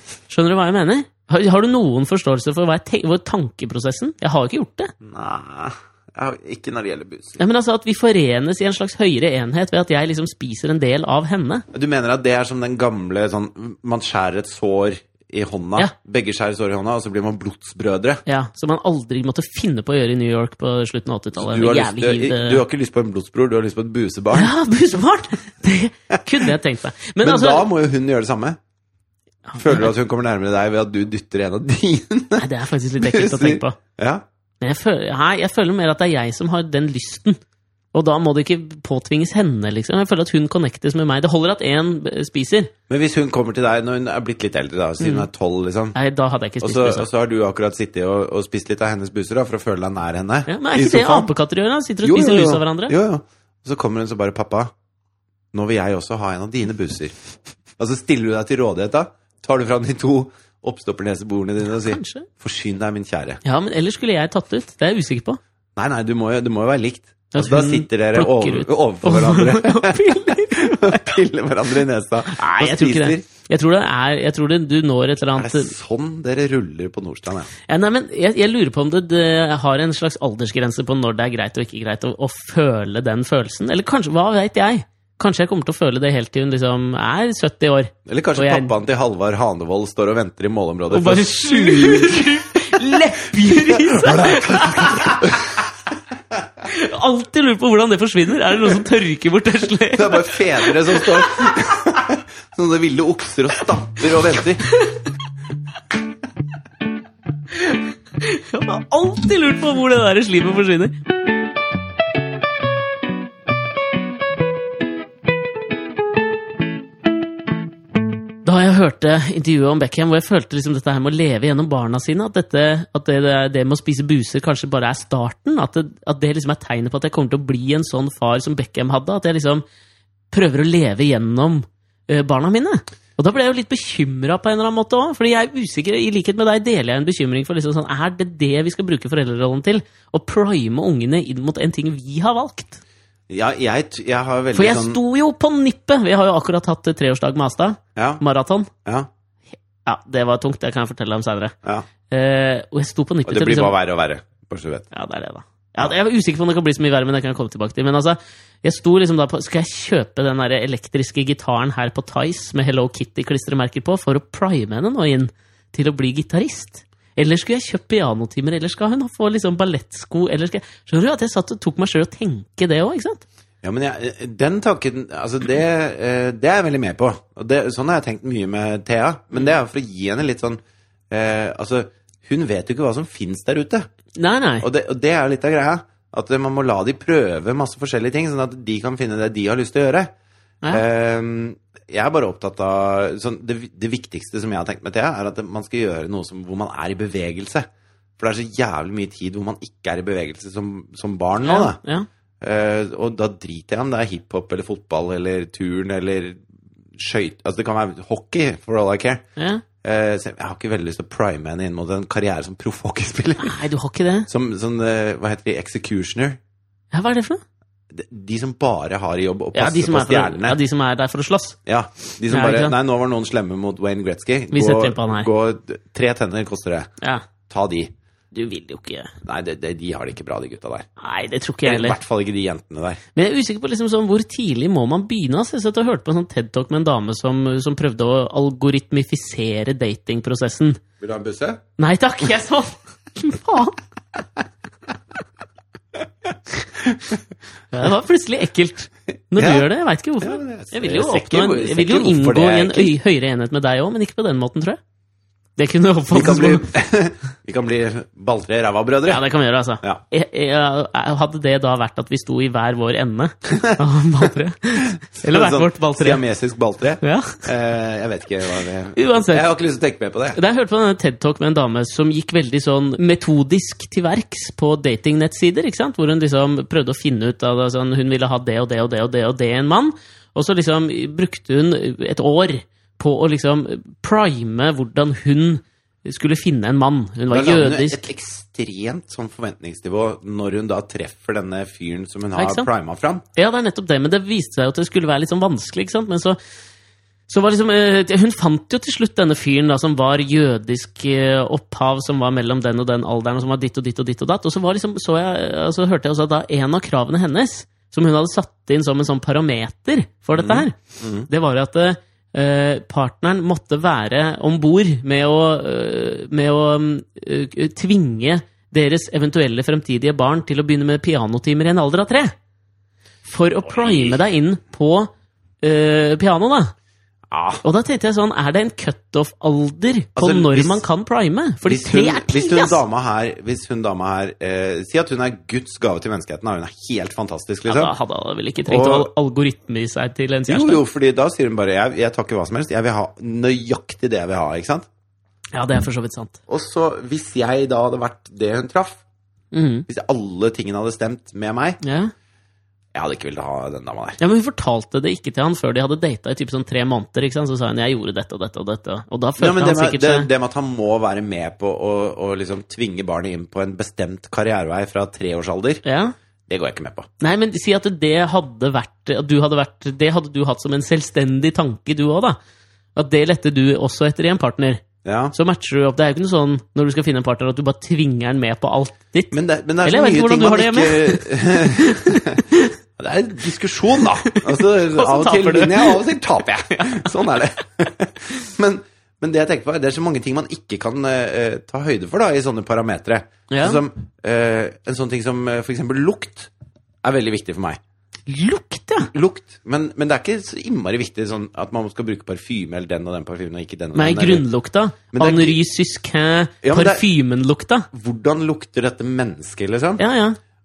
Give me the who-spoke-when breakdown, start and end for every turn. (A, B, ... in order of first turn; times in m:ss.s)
0:00.3-0:04.9 A
0:05.0-0:07.4 B
0:07.4-0:11.6 A
0:11.7-0:18.2 B
0:18.3-0:22.6 A
0:21.4-0:24.5 B
0:24.3-0:27.7 A
0:27.2-0:28.6 B
0:29.5-0:29.9 A
0:29.6-0:32.5 B
0:32.4-0:33.8 A
0:33.0-0:34.2 B
0:34.6-0:37.4 A
0:37.9-0:42.7 A
0:42.9-0:46.0 B
0:45.0-0:45.3 A
0:46.0-0:47.1 A
0:46.6-0:51.3 B
0:50.5-0:53.0 A
0:52.0-0:54.7 B
0:55.5-0:57.2 B
0:57.8-1:03.4 B
1:01.8-1:02.3 A
1:03.4-1:05.4 A
1:05.8-1:13.2 B
1:07.3-1:11.1 A
1:12.3-1:15.7 A
1:15.4-1:17.5 B
1:17.7-1:28.7 A
1:28.1-1:32.7 B
1:30.9-1:35.4 A
1:33.4-1:35.6 B
1:36.6-1:41.5 A
1:39.9-1:44.7 B
1:47.6-1:51.0 A
1:58.4-2:09.6 A
2:10.3-2:22.8 A
2:23.3-2:25.0 B
2:24.5-2:28.7 A
2:28.0-2:28.2 B
2:29.8-2:31.6 A
2:32.1-2:33.8 A
2:33.3-2:34.9 B
2:34.9-2:53.2 A
2:53.6-3:00.6 B
3:01.1-3:03.9 B
3:04.2-3:04.7 A
3:04.6-3:10.1 B
3:10.7-3:17.7 B
3:18.2-3:21.8 B
3:21.4-3:22.1 A
3:22.4-3:26.4 B
3:27.0-3:29.2 B
3:29.4-3:29.6 A
3:29.8-3:33.6 B
3:33.4-3:34.3 A
3:34.3-3:36.4 B
3:36.9-3:37.4 A
3:37.9-3:40.6 B
3:39.6-3:41.6 A
3:41.7-3:46.9 B
3:42.3-3:42.7 A
3:44.5-3:45.3 A
3:47.5-3:47.9 B
3:48.3-3:49.1 A
3:49.2-3:50.9 B
3:51.0-3:52.0 A
3:51.6-3:53.0 B
3:53.2-4:00.8 A
4:01.0-4:01.6 B
4:01.8-4:03.8 A
4:06.8-4:07.2 B
4:07.7-4:14.8 A
4:09.4-4:09.7 B
4:10.2-4:13.0 B
4:15.6-4:16.7 A
4:16.1-4:19.2 B
4:19.1-4:26.2 A
4:23.5-4:23.8 B
4:25.2-4:30.4 B
4:27.0-4:27.4 A
4:29.0-4:29.5 A
4:30.3-4:48.1 A
4:47.3-4:53.2 B
4:52.4-4:52.7 A
4:53.4-4:56.4 A
4:57.3-5:22.3 A
5:10.4-5:11.3 B
5:23.2-5:25.1 A
5:23.6-5:24.2 B
5:25.6-5:26.7 A
5:27.3-5:27.6 B
5:27.6-5:32.8 A
5:30.2-5:30.8 B
5:31.6-5:37.9 B
5:37.7-5:40.8 A
5:38.6-5:39.1 B
5:40.5-5:44.9 B
5:45.5-5:46.4 A
5:46.5-5:49.0 B
5:49.5-5:49.9 A
5:49.9-5:51.8 B
5:51.8-5:52.1 A
5:52.9-5:54.2 B
5:54.2-6:00.3 A
5:59.4-6:05.8 B
6:05.8-6:06.2 A
6:06.5-6:07.1 B
6:07.2-6:12.4 A
6:13.0-6:22.7 A
6:15.0-6:15.3 B
6:19.3-6:22.4 B
6:23.0-6:36.5 B
6:24.3-6:26.0 A
6:26.7-6:27.1 A
6:33.5-6:33.8 A
6:37.0-6:37.8 B
6:38.3-6:39.1 A
6:39.1-6:44.4 B
6:44.0-6:47.9 A
6:45.1-6:45.6 B
6:46.6-6:47.0 B
6:47.9-6:50.0 B
6:50.0-6:50.4 A